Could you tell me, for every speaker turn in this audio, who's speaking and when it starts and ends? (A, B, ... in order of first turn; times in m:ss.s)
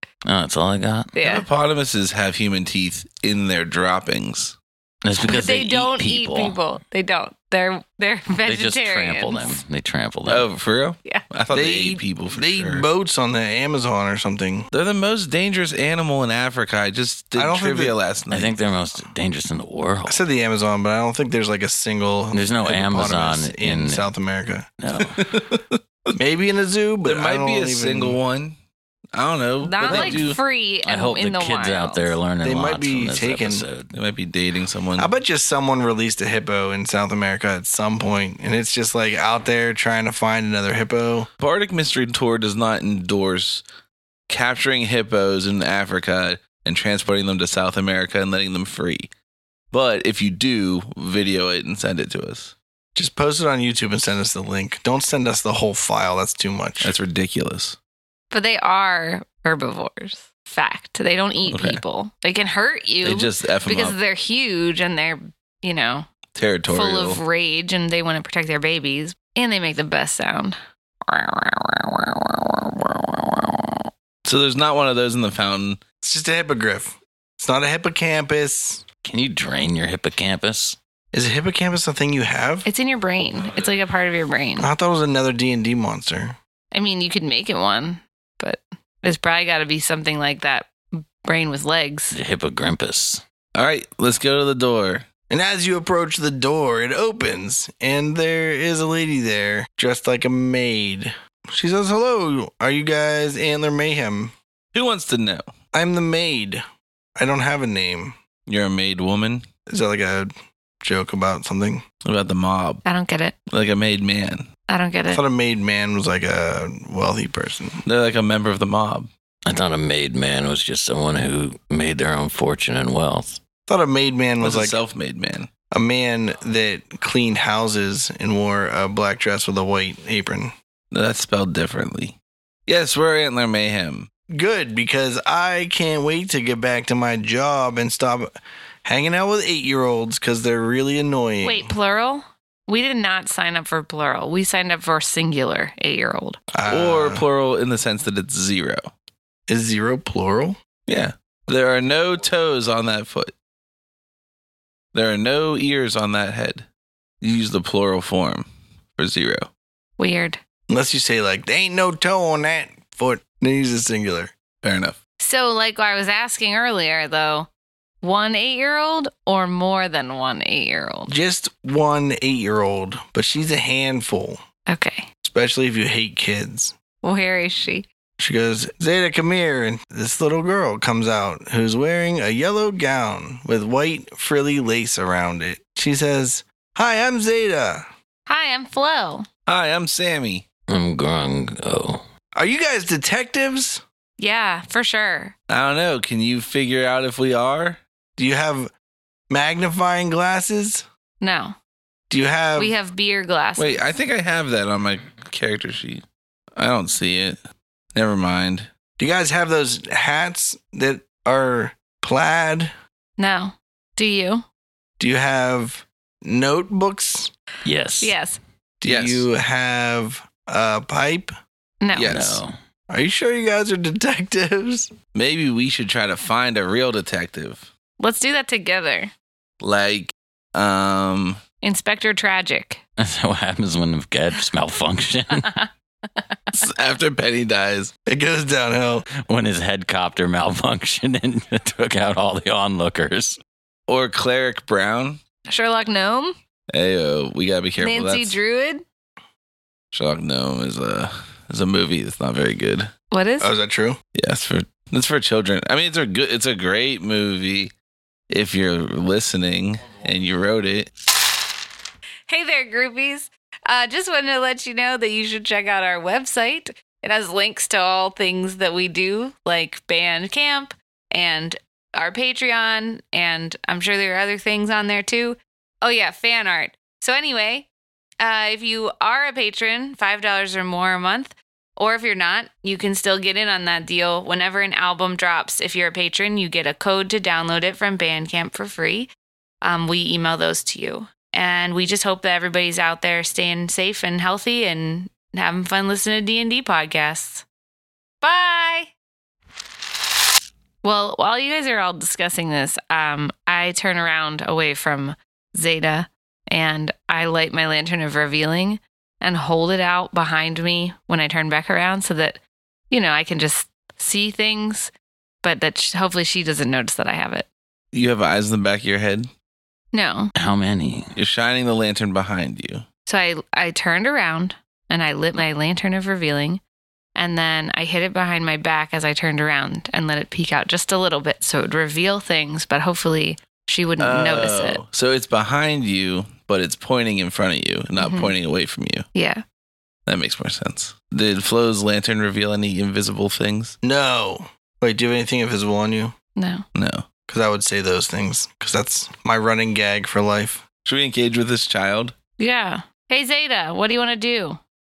0:00.2-0:01.2 A
0:01.2-0:01.5 B
0:01.2-0:04.6 C
0:05.0-0:06.6 A
0:05.2-0:09.6 B
0:08.4-0:10.5 A
0:10.3-0:12.9 C
0:11.5-0:14.7 D
0:14.7-0:18.6 C
0:17.4-0:18.0 D
0:18.3-0:20.2 A
0:20.1-0:24.7 D
0:22.3-0:24.1 A
0:24.8-0:25.2 A
0:25.0-0:25.8 C
0:26.2-0:28.2 D
0:27.0-0:28.6 C
0:29.1-0:30.4 C
0:29.6-0:32.2 B
0:29.8-0:30.1 D
0:30.8-0:33.9 A
0:32.4-0:33.7 D
0:33.9-0:35.1 C
0:35.0-0:41.3 D
0:41.4-0:43.6 C
0:44.3-0:49.1 C
0:49.7-0:52.6 C
0:53.0-0:57.0 D
0:56.8-0:57.8 C
0:58.3-1:06.1 B
1:01.5-1:01.8 C
1:03.0-1:04.0 C
1:06.4-1:07.2 C
1:06.7-1:13.8 B
1:14.2-1:15.8 C
1:16.0-1:18.8 D
1:19.0-1:20.8 A
1:21.1-1:22.7 D
1:22.6-1:24.7 B
1:24.6-1:26.4 D
1:26.7-1:32.2 B
1:32.1-1:33.2 A
1:33.6-1:35.1 C
1:35.3-1:44.4 D
1:44.7-1:45.5 C
1:45.7-1:46.6 D
1:47.2-1:48.2 D
1:48.5-1:49.5 C
1:49.7-1:51.8 D
1:52.0-1:52.8 C
1:52.8-1:53.4 B
1:53.5-1:54.5 C
1:54.7-1:55.2 B
1:55.1-1:57.8 D
1:57.9-1:59.1 C
1:59.5-2:03.4 A
2:03.7-2:04.8 D
2:04.4-2:05.5 C
2:05.7-2:10.5 D
2:10.9-2:14.1 C
2:14.3-2:18.3 D
2:18.8-2:21.7 D
2:21.4-2:26.4 B
2:26.5-2:27.2 D
2:26.7-2:28.9 C
2:29.5-2:30.6 D
2:30.9-2:33.3 C
2:34.9-2:36.7 C
2:37.2-2:39.5 C
2:40.0-2:40.4 B
2:40.7-2:44.3 D
2:44.6-2:45.0 C
2:45.2-2:47.5 B
2:48.0-2:51.1 B
2:51.1-2:54.4 D
2:54.7-2:55.1 B
2:55.2-2:56.7 D
2:57.0-2:57.9 B
2:58.2-3:07.8 D
3:08.3-3:09.3 B
3:09.5-3:10.4 C
3:10.7-3:12.0 A
3:12.4-3:13.8 D
3:14.2-3:15.3 B
3:15.5-3:17.8 C
3:18.2-3:18.7 D
3:19.3-3:20.9 D
3:21.2-3:21.6 B
3:22.1-3:22.7 D
3:22.6-3:23.8 B
3:23.6-3:26.0 C
3:26.6-3:27.4 C
3:27.9-3:28.7 C
3:29.0-3:32.7 D
3:33.2-3:34.4 B
3:35.0-3:37.3 D
3:37.6-3:38.2 A
3:38.0-3:38.4 B
3:38.8-3:41.3 D
3:38.8-3:39.3 C
3:41.8-3:42.2 B
3:41.9-3:42.4 C
3:42.0-3:42.5 A
3:42.9-3:44.9 D
3:45.1-3:47.7 C
3:48.0-3:49.1 B
3:49.6-3:51.4 C
3:51.6-3:52.8 B
3:53.0-3:55.6 A
3:55.4-3:56.2 B
3:56.5-3:57.9 C
3:58.1-3:59.1 D
3:59.2-4:03.4 A
4:03.9-4:05.2 C
4:05.5-4:06.4 B
4:06.7-4:08.4 C
4:07.8-4:08.8 B
4:09.9-4:12.9 C
4:13.1-4:13.5 B
4:13.4-4:14.0 D
4:14.2-4:17.7 C
4:18.3-4:20.9 C
4:22.3-4:37.7 B
4:38.2-4:49.1 B
4:49.6-4:57.4 B
4:58.2-4:58.9 B
5:00.8-5:14.9 B
5:15.4-5:17.5 B
5:17.9-5:19.3 C
5:19.9-5:20.3 B
5:20.4-5:21.2 A
5:21.2-5:22.8 C
5:23.1-5:26.6 B
5:27.2-5:34.8 B
5:34.0-5:39.1 C
5:38.0-5:38.3 B
5:39.2-5:39.4 B
5:40.1-5:43.8 C
5:43.8-5:46.1 D
5:46.4-5:46.6 B
5:46.7-5:47.1 C
5:47.3-5:50.6 D
5:50.8-5:52.2 C
5:52.4-5:54.6 B